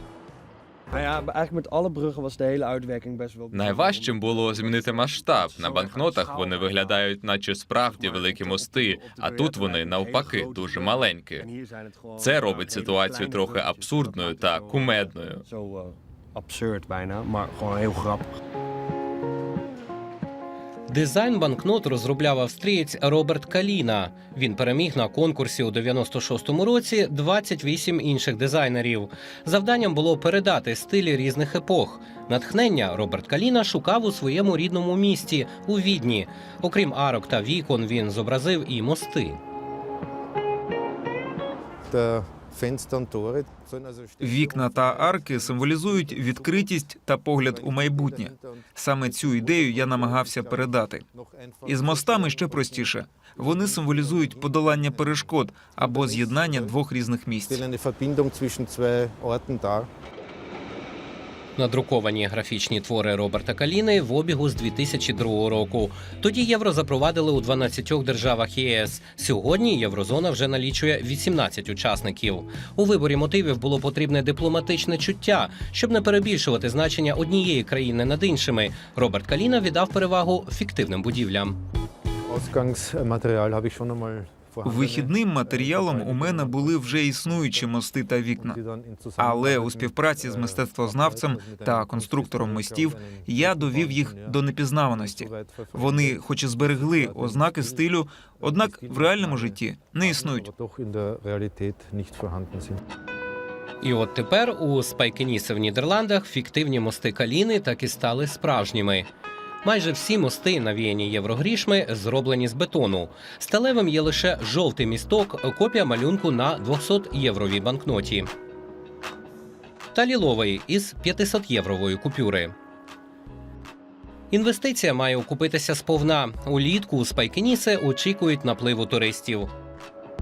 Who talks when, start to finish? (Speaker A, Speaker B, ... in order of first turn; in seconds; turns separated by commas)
Speaker A: 0.9-7.1, Speaker B: 3.5-11.5, Speaker A: 7.8-18.3, Speaker B: 12.2-15.4, Speaker C: 20.9-39.4, Speaker D: 41.9-46.7, Speaker E: 44.2-51.0, Speaker D: 47.4-56.7, Speaker E: 51.6-57.6, Speaker D: 57.5-59.9, Speaker C: 61.6-81.6, Speaker D: 82.3-87.7, Speaker E: 84.6-88.6, Speaker D: 88.4-94.4, Speaker E: 89.2-100.5, Speaker D: 94.9-97.9, Speaker D: 98.4-102.8, Speaker C: 103.8-109.1, Speaker C: 109.6-118.3, Speaker C: 119.9-122.5, Speaker C: 124.3-129.5